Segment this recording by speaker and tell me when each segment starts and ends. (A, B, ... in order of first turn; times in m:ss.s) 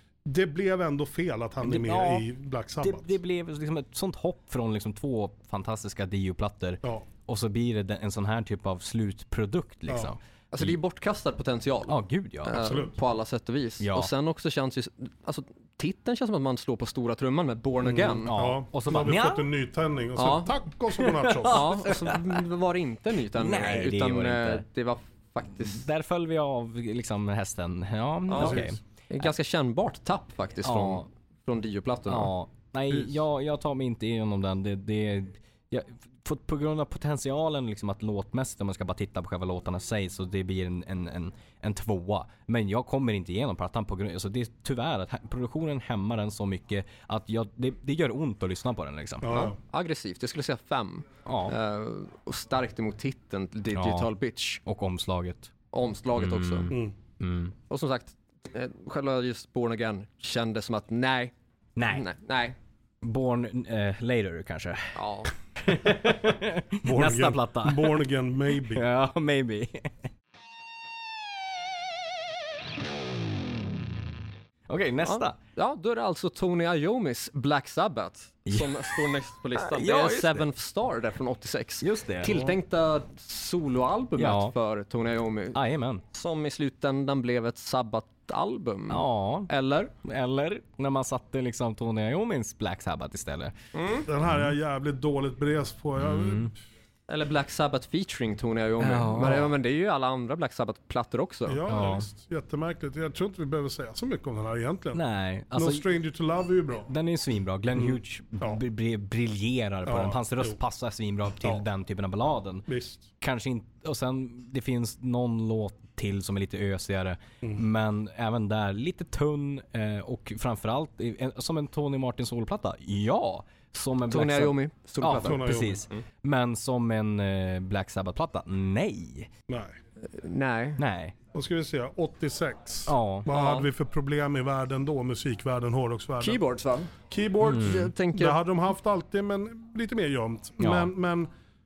0:00.2-0:03.2 A
0:01.6-0:02.2 B
0:02.8-0:10.8 B
0:09.9-0:10.1 A
0:10.5-0:18.3 C
0:11.9-0:12.6 B
0:12.6-0:13.0 A
0:13.8-0:14.1 B
0:17.8-0:21.7 A
0:18.3-0:19.5 B
0:20.2-0:20.5 C
0:21.0-0:22.4 B
0:21.5-0:25.9 C
0:23.3-0:24.6 B
0:25.6-0:28.8 B
0:28.3-0:32.3 C
0:28.4-0:28.8 A
0:30.6-0:31.0 B
0:32.1-0:49.3 B
0:49.2-0:49.6 A
0:49.3-0:54.6 C
0:51.3-0:51.6 B
0:53.7-0:54.1 B
0:54.6-0:55.5 B
0:55.7-0:56.7 C
0:56.2-0:57.6 B
0:56.7-0:57.0 A
0:57.7-1:01.3 C
1:01.8-1:02.0 B
1:01.9-1:02.6 C
1:03.0-1:05.0 B
1:05.0-1:05.3 C
1:05.6-1:08.0 B
1:06.8-1:08.9 A
1:08.7-1:10.1 B
1:14.7-1:15.4 B
1:15.0-1:25.6 C
1:18.5-1:19.0 B
1:19.6-1:20.4 B
1:21.8-1:22.4 B
1:22.3-1:22.6 A
1:24.2-1:24.5 B
1:25.6-1:26.0 B
1:26.1-1:29.9 C
1:28.9-1:29.5 B
1:30.0-1:33.5 B
1:33.8-1:34.1 C
1:34.1-1:36.5 A
1:36.0-1:36.5 B
1:37.1-1:41.6 C
1:38.8-1:39.5 B
1:39.2-1:39.5 A
1:41.5-1:45.0 A
1:41.7-1:42.0 B
1:44.9-1:45.8 B
1:45.6-1:46.9 A
1:46.9-1:52.7 B
1:47.7-1:48.6 A
1:49.9-1:50.6 A
1:52.7-1:53.1 A
1:53.2-2:09.3 B
2:04.1-2:06.0 C
2:05.2-2:05.9 A
2:09.5-2:09.8 A
2:10.1-2:10.8 C
2:10.8-2:11.2 B
2:11.3-2:16.4 A
2:12.9-2:13.3 B
2:13.3-2:13.7 C
2:16.2-2:16.9 C
2:17.0-2:21.3 A
2:17.4-2:17.9 B
2:17.5-2:18.4 C
2:20.6-2:20.9 B